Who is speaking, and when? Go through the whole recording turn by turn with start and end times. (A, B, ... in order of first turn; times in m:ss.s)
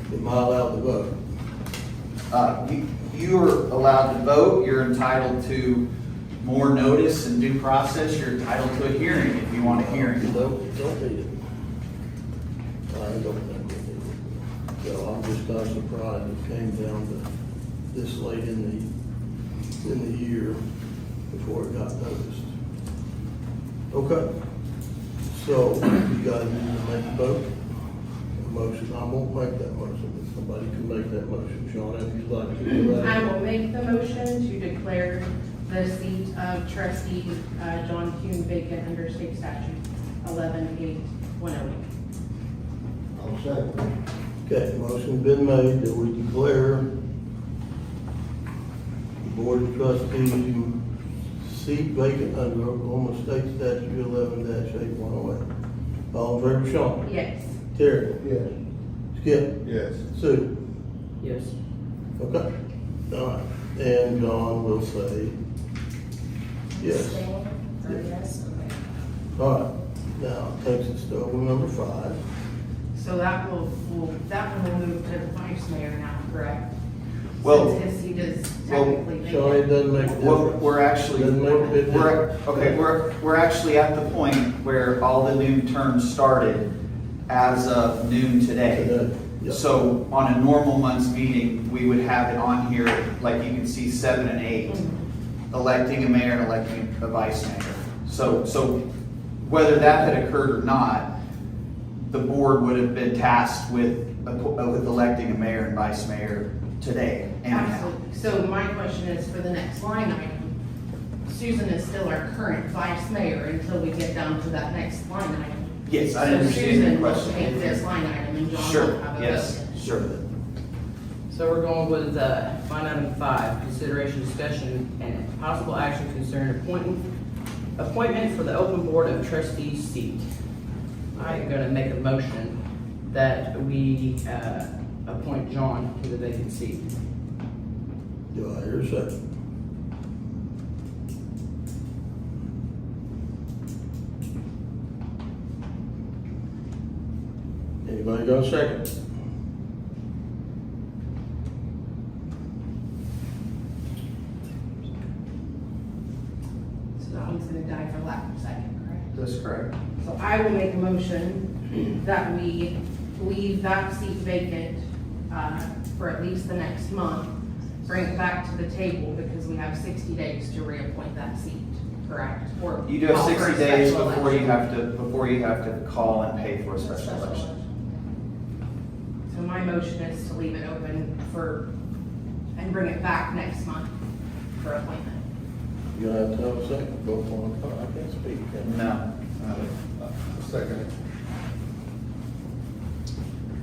0:00.1-0:01.1 A
0:02.3-0:05.8 B
0:06.4-0:10.5 B
0:09.6-0:11.4 A
0:12.9-0:17.2 A
0:17.9-0:18.9 A
0:19.8-0:20.6 A
0:21.3-0:22.5 A
0:23.9-0:24.3 A
0:25.3-0:27.5 A
0:28.4-0:33.3 A
0:33.0-0:41.8 C
0:43.1-0:43.9 D
0:44.4-0:46.8 A
0:49.2-0:50.8 A
0:51.4-0:55.4 A
0:56.1-0:57.0 A
0:57.0-0:57.6 C
0:57.7-0:58.2 A
0:58.2-0:58.5 D
0:59.1-1:00.5 A
0:59.6-1:00.0 D
1:01.2-1:01.5 E
1:02.2-1:02.4 A
1:03.1-1:05.3 A
1:06.7-1:08.8 C
1:06.8-1:07.3 A
1:09.4-1:12.2 A
1:12.9-1:16.7 C
1:17.4-1:17.8 B
1:17.4-1:20.2 C
1:18.6-1:18.9 B
1:19.2-1:22.8 A
1:20.2-1:26.7 B
1:27.3-1:28.9 B
1:28.7-1:29.7 A
1:29.4-1:34.8 B
1:34.7-1:35.0 C
1:35.5-1:38.8 B
1:39.4-1:41.1 B
1:42.0-1:47.9 B
1:47.4-1:50.5 C
1:51.2-1:59.8 C
1:55.8-1:57.8 B
1:58.5-2:00.2 B
2:01.3-2:07.0 E
2:07.8-2:10.2 E
2:11.1-2:12.6 E
2:13.1-2:16.8 E
2:18.3-2:19.1 A
2:27.8-2:28.9 A
2:37.0-2:39.1 C
2:39.1-2:39.7 B
2:40.0-2:47.3 C
2:47.8-2:54.6 C
2:52.8-2:57.5 B
2:56.8-2:58.0 C
2:59.3-3:01.7 C
3:02.6-3:03.9 C
3:04.6-3:05.2 C
3:05.9-3:08.7 A
3:08.6-3:09.7 B
3:10.0-3:10.9 D